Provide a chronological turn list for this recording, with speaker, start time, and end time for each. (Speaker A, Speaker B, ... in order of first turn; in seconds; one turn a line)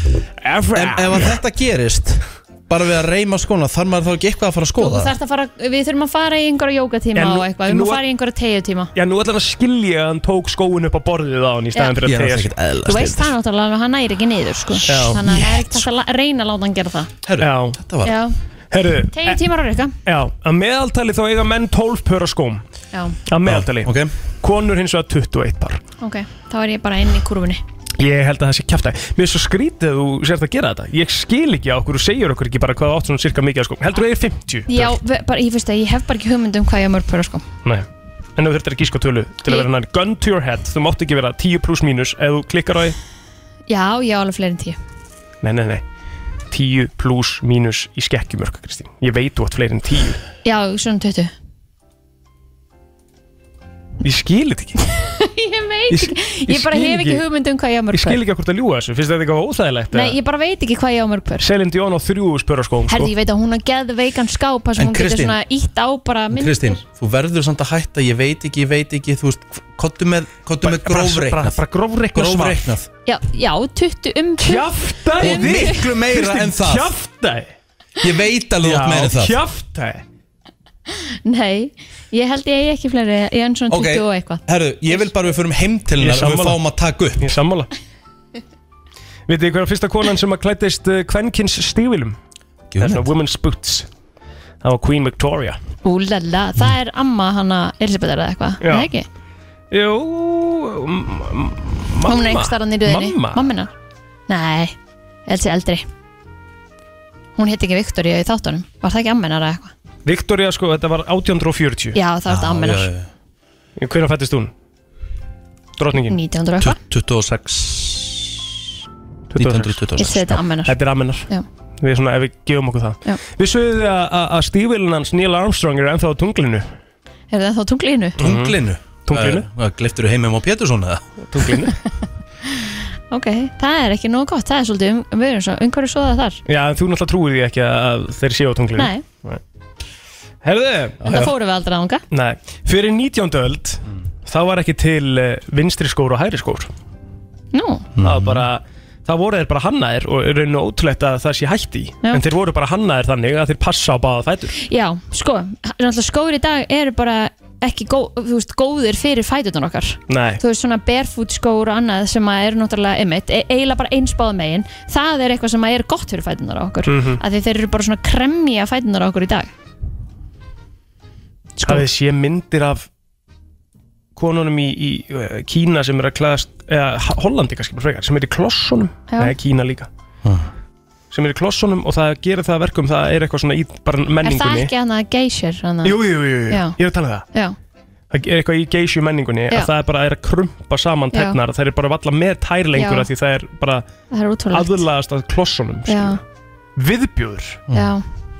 Speaker A: 0.4-1.4
Speaker B: 0.7-5.1
Speaker C: 4.8-8.9
Speaker A: 7.1-8.0
Speaker A: 8.9-12.5
Speaker B: 12.0-13.3
Speaker C: 12.8-17.1
Speaker B: 14.8-15.8
Speaker A: 14.9-15.2
Speaker B: 17.2-18.1
Speaker A: 17.4-17.8
Speaker C: 18.0-18.3
Speaker A: 18.7-19.4
Speaker C: 19.1-19.9
Speaker A: 20.1-22.6
Speaker A: 23.3-25.8
Speaker B: 23.4-24.1
Speaker C: 26.0-27.6
Speaker A: 28.0-35.0
Speaker C: 34.7-37.4
Speaker A: 38.4-43.0
Speaker C: 43.7-44.8
Speaker A: 45.4-45.8
Speaker A: 46.5-50.2
Speaker C: 50.4-51.3
Speaker A: 54.0-54.8
Speaker C: 54.9-58.2
Speaker A: 55.9-57.2
Speaker A: 57.9-60.2
Speaker C: 59.9-61.4
Speaker A: 61.4-63.1
Speaker C: 62.9-66.8
Speaker B: 64.8-65.4
Speaker B: 66.3-71.6
Speaker A: 70.6-72.6
Speaker B: 72.1-72.9
Speaker C: 73.0-75.9
Speaker A: 74.4-77.5
Speaker B: 75.2-76.9
Speaker B: 78.0-79.3
Speaker A: 78.6-80.0
Speaker C: 81.2-85.1
Speaker B: 83.7-87.3
Speaker A: 86.0-86.6
Speaker A: 87.2-87.7
Speaker A: 89.3-92.2
Speaker B: 92.7-93.0
Speaker A: 92.8-93.9
Speaker A: 94.6-95.6
Speaker C: 95.8-99.0
Speaker A: 98.6-98.9
Speaker A: 99.7-103.5
Speaker C: 102.0-103.7
Speaker C: 104.3-104.7
Speaker C: 105.3-105.8
Speaker C: 107.3-109.7
Speaker A: 110.0-112.0
Speaker C: 111.9-112.9
Speaker B: 112.3-113.1
Speaker A: 113.8-114.5
Speaker A: 115.8-116.2
Speaker C: 116.0-116.8
Speaker B: 116.6-118.4
Speaker A: 119.3-119.8
Speaker B: 119.4-120.4
Speaker C: 120.0-120.7
Speaker A: 120.6-121.3
Speaker A: 121.8-126.7
Speaker C: 127.3-128.2
Speaker A: 128.2-129.4
Speaker B: 128.2-131.0
Speaker A: 131.3-131.8
Speaker C: 132.6-136.4
Speaker A: 136.5-139.4
Speaker C: 138.8-139.0
Speaker A: 140.4-141.2
Speaker C: 141.0-142.0
Speaker A: 142.1-146.7
Speaker C: 147.5-147.9
Speaker B: 147.9-148.4
Speaker A: 148.0-154.5
Speaker C: 154.6-169.5
Speaker A: 160.1-160.4
Speaker A: 166.8-167.2
Speaker A: 171.7-172.9
Speaker A: 174.2-179.9
Speaker A: 181.1-184.7
Speaker C: 184.2-186.0
Speaker A: 185.8-187.2
Speaker C: 186.5-186.8
Speaker A: 188.1-193.8
Speaker C: 192.7-193.1
Speaker C: 194.1-194.8
Speaker A: 194.5-196.2
Speaker C: 195.9-196.2
Speaker A: 196.8-197.6
Speaker C: 197.7-198.0